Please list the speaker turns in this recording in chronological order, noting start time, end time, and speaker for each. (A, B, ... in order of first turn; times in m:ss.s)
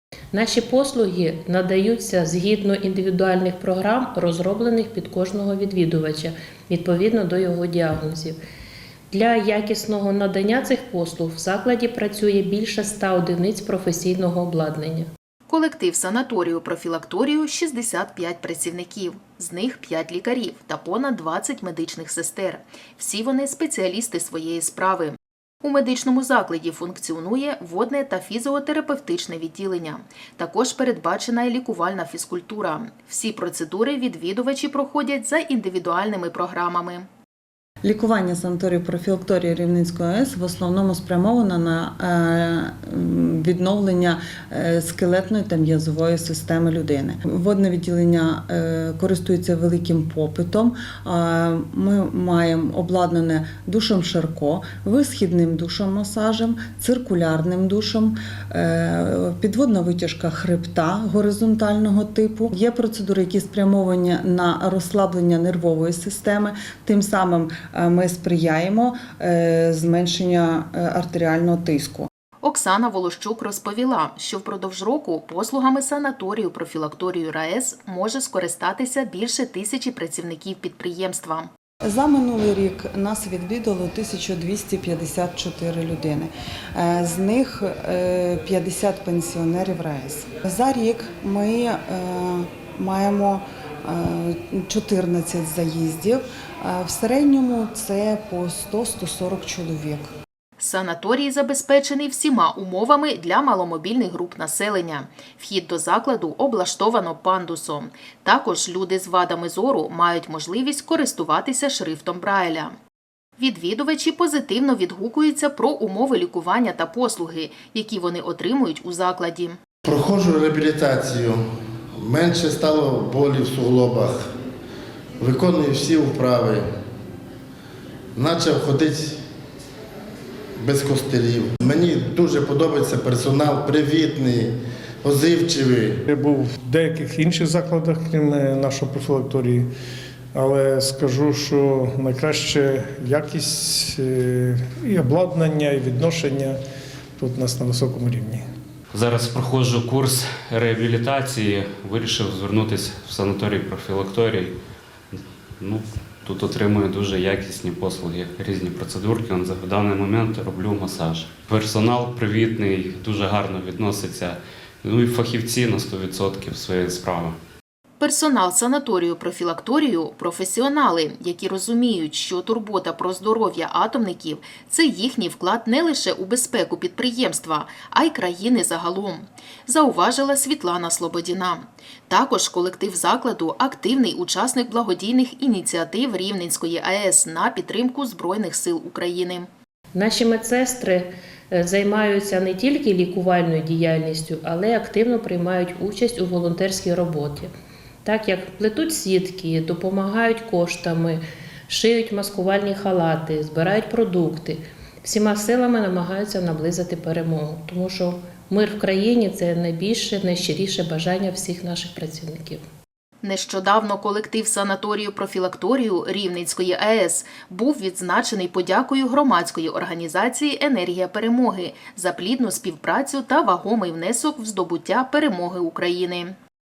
0:00.3-0:08.4 A
0:09.1-0:15.1 A
0:15.5-0:37.1 B
0:37.8-1:12.1 C
1:12.4-1:21.5 B
1:21.8-1:40.1 C
1:40.6-1:52.7 B
1:53.4-1:59.6 B
1:59.8-2:01.4 D
2:02.0-2:04.2 D
2:05.2-2:06.6 D
2:08.2-2:09.2 D
2:10.6-2:16.0 D
2:16.1-2:19.6 E
2:20.3-2:26.6 E
2:27.2-2:28.4 E
2:28.9-2:34.6 F
2:35.1-2:47.4 F
2:48.0-3:09.5 B
3:09.9-3:17.5 A
3:18.0-3:32.6 A
3:33.2-3:46.3 B